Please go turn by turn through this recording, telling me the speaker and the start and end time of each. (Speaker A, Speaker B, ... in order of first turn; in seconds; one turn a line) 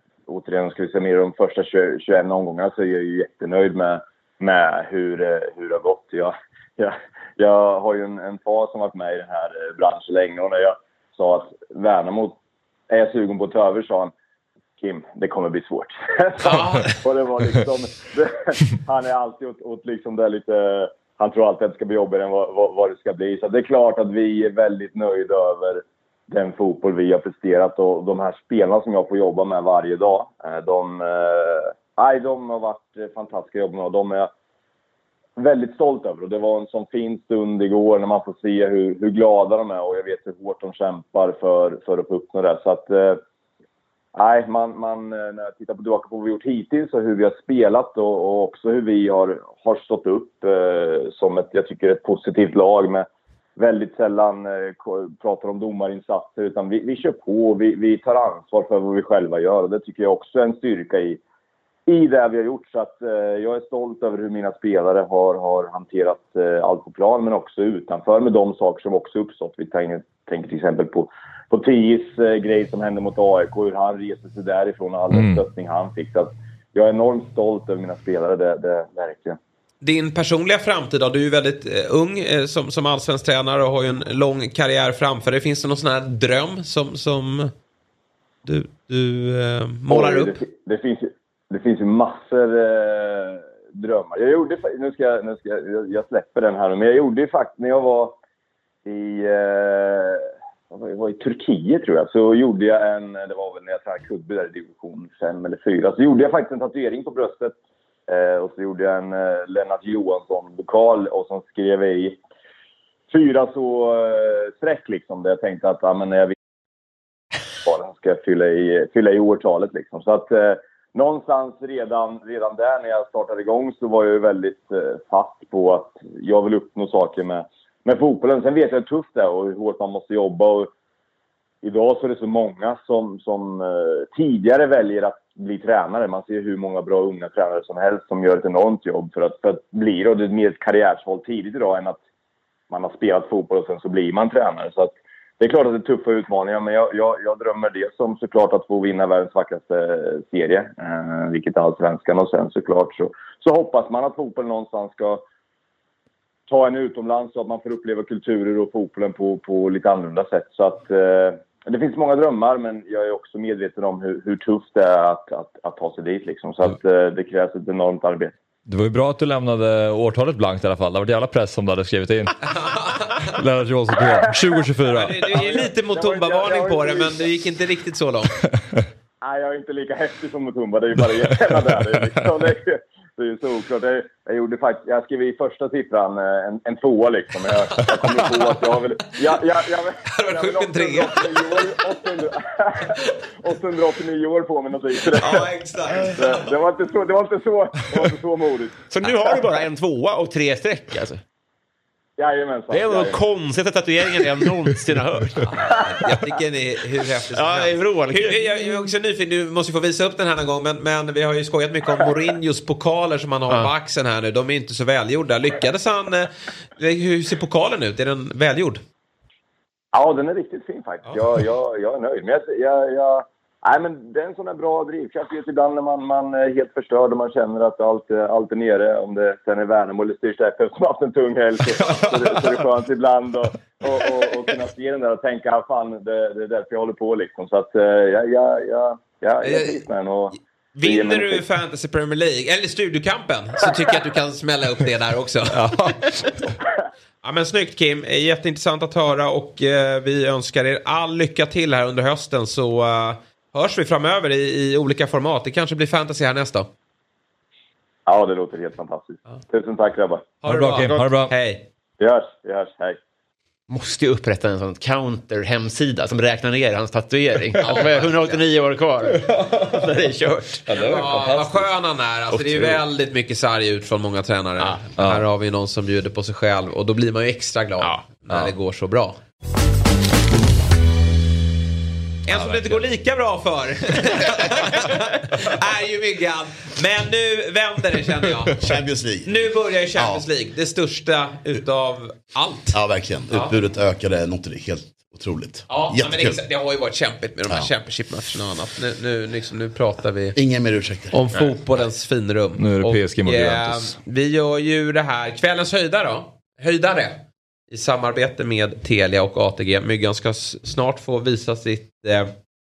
Speaker A: 0.3-12.4
Speaker A: 12.9-14.1
Speaker A: 14.8-34.3
Speaker B: 16.4-16.9
Speaker A: 35.4-43.2
Speaker A: 44.1-61.2
Speaker A: 61.9-79.4
Speaker C: 75.1-75.4
Speaker B: 79.8-87.5
Speaker B: 88.5-90.4
Speaker A: 89.9-98.2
Speaker A: 98.9-107.6
Speaker A: 108.1-112.2
Speaker A: 113.1-116.3
Speaker A: 117.7-130.7
Speaker A: 131.6-142.0
Speaker A: 142.7-155.2
Speaker A: 156.5-168.4
Speaker C: 168.7-172.4
Speaker B: 172.5-173.1
Speaker C: 173.3-175.3
Speaker A: 174.1-174.7
Speaker B: 174.9-178.3
Speaker A: 175.3-177.3
Speaker C: 178.6-178.8
Speaker A: 179.2-198.7
Speaker B: 190.1-191.6
Speaker B: 195.1-196.4
Speaker D: 198.9-201.2
Speaker A: 202.2-203.2
Speaker D: 202.7-205.6
Speaker B: 205.5-218.8
Speaker D: 207.3-208.4
Speaker A: 219.9-241.4
Speaker B: 239.4-239.8
Speaker B: 240.8-245.6
Speaker C: 245.5-246.5
Speaker B: 247.2-256.7
Speaker A: 258.1-260.3
Speaker B: 260.4-261.7
Speaker C: 260.4-261.3
Speaker A: 262.0-263.0
Speaker D: 263.7-270.7
Speaker B: 267.6-268.4
Speaker C: 269.1-269.9
Speaker C: 270.7-271.7
Speaker B: 270.7-279.2
Speaker D: 272.3-272.8
Speaker C: 275.0-275.3
Speaker C: 278.3-278.5
Speaker B: 282.3-293.6
Speaker C: 282.3-282.8
Speaker E: 288.6-289.4
Speaker E: 290.0-290.3
Speaker E: 292.7-296.4
Speaker B: 295.7-300.4
Speaker E: 300.4-301.2
Speaker B: 301.1-312.3
Speaker C: 302.6-304.0